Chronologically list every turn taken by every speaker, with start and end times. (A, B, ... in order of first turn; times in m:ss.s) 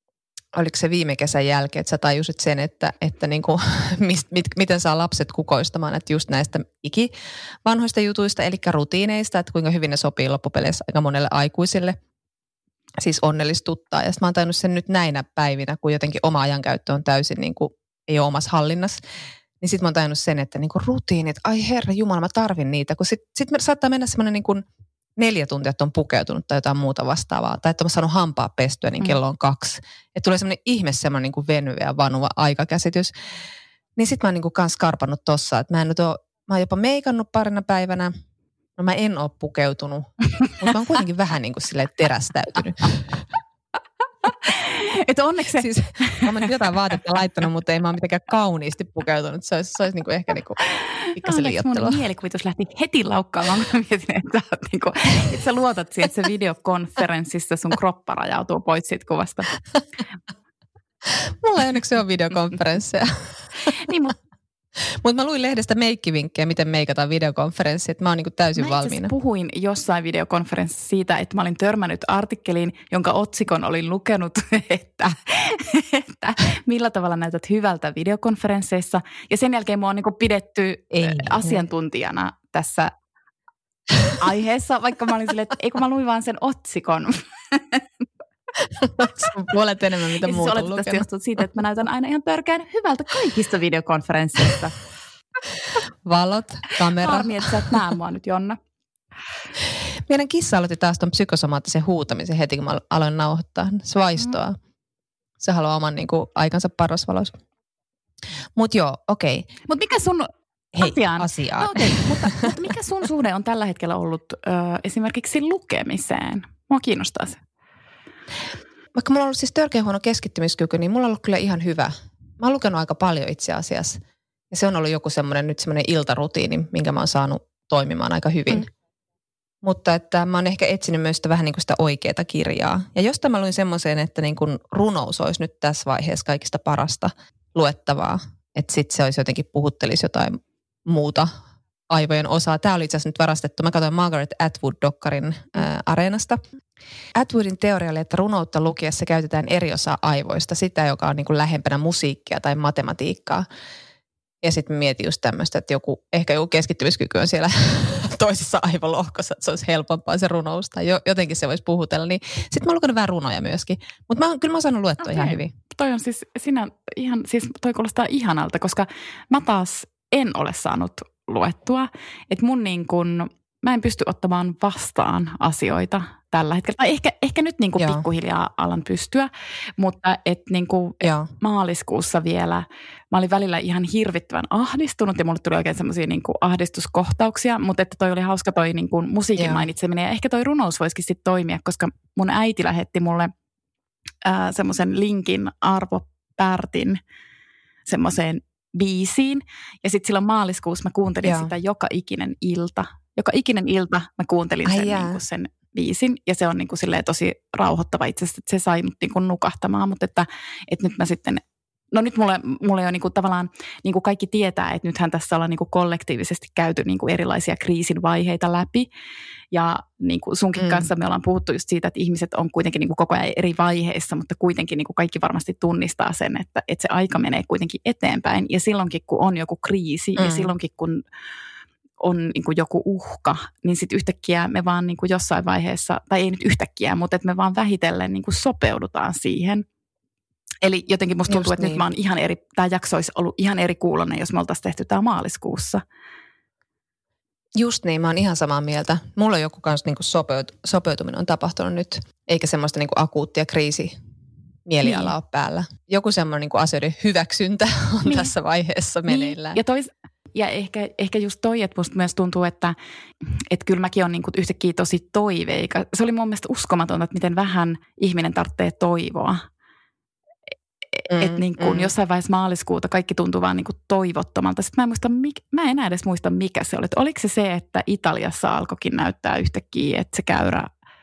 0:00.6-0:07.1 A
0:07.6-0:12.0 A
0:13.0-0:19.0 A
0:19.6-0:24.6 A
0:25.2-0:33.1 A
0:34.0-0:38.1 A
0:38.8-0:43.2 A
0:44.2-0:46.5 B
0:45.6-0:50.6 A
0:50.7-0:59.5 B
0:51.1-0:52.0 A
1:01.1-1:03.8 A
1:03.8-1:04.2 B
1:05.0-1:09.1 A
1:08.6-1:22.9 B
1:20.9-1:21.6 A
1:24.2-1:27.8 B
1:28.8-1:31.1 A
1:30.2-1:34.7 B
1:36.0-1:37.8 A
1:37.0-1:38.6 B
1:39.6-1:44.6 A
1:45.4-1:47.4 A
1:48.6-1:49.5 A
1:49.7-1:57.4 B
1:50.8-1:52.5 A
1:59.0-2:04.0 A
2:04.5-2:08.7 A
2:09.6-2:21.3 A
2:21.9-2:26.4 A
2:27.2-2:33.4 A
2:34.4-2:45.5 A
2:45.0-3:13.3 B
2:57.8-2:58.0 A
3:01.0-3:01.3 A
3:09.4-3:09.6 A
3:14.2-3:17.0 B
3:17.9-3:38.9 B
3:21.2-3:21.5 A
3:24.6-3:25.2 A
3:39.5-3:51.0 B
3:40.6-3:40.9 A
3:50.2-3:50.5 A
3:52.0-3:59.6 B
4:00.6-4:05.8 B
4:01.3-4:01.8 A
4:07.6-4:14.0 A
4:14.7-4:19.6 A
4:14.8-4:15.1 B
4:18.0-4:18.3 B
4:19.1-4:22.8 B
4:23.5-4:29.4 B
4:31.0-4:40.7 B
4:31.1-4:31.9 A